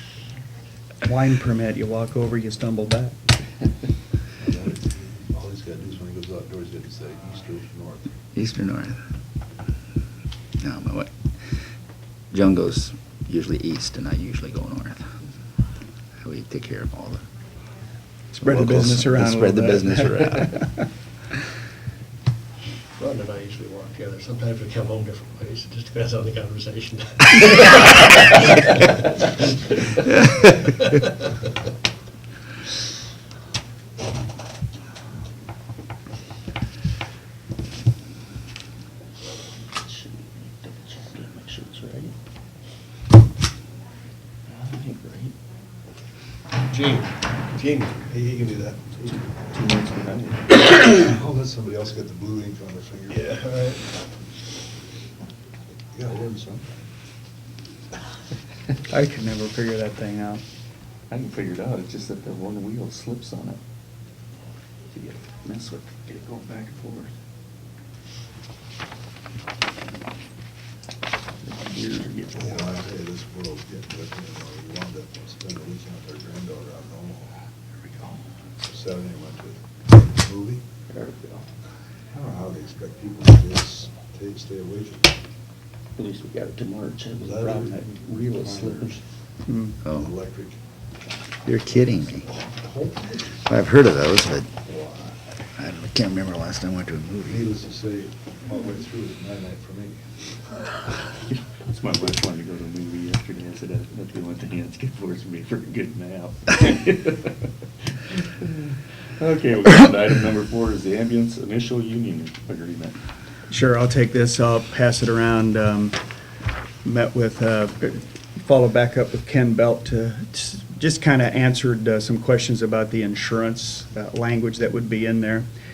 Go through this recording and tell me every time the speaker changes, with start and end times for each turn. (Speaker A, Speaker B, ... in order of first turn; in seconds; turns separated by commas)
Speaker A: 1.0-3.1, Speaker B: 4.4-8.1, Speaker C: 8.3-9.0, Speaker C: 10.6-11.1, Speaker C: 12.3-15.1, Speaker C: 16.2-17.2, Speaker A: 18.3-20.8, Speaker C: 18.4-20.6, Speaker D: 23.0-28.8, Speaker E: 39.6-42.2, Speaker E: 44.5-45.3, Speaker D: 46.7-49.1, Speaker E: 49.5-50.5, Speaker B: 50.9-53.2, Speaker D: 53.1-53.9, Speaker B: 56.0-56.8, Speaker A: 58.9-60.4, Speaker E: 61.1-63.6, Speaker E: 64.9-67.1, Speaker E: 71.4-72.8, Speaker B: 72.4-77.3, Speaker E: 77.9-78.2, Speaker B: 78.6-80.6, Speaker E: 80.9-81.5, Speaker B: 82.1-85.1, Speaker E: 86.0-89.0, Speaker B: 87.2-87.8, Speaker B: 88.3-88.9, Speaker A: 89.5-89.8, Speaker C: 89.8-90.1, Speaker B: 89.9-90.6, Speaker C: 91.5-92.3, Speaker B: 92.4-93.2, Speaker C: 93.5-94.6, Speaker B: 94.8-95.1, Speaker C: 95.6-97.5, Speaker B: 97.3-100.0, Speaker E: 101.3-107.5, Speaker E: 108.1-113.0, Speaker A: 113.5-116.0, Speaker A: 116.8-125.5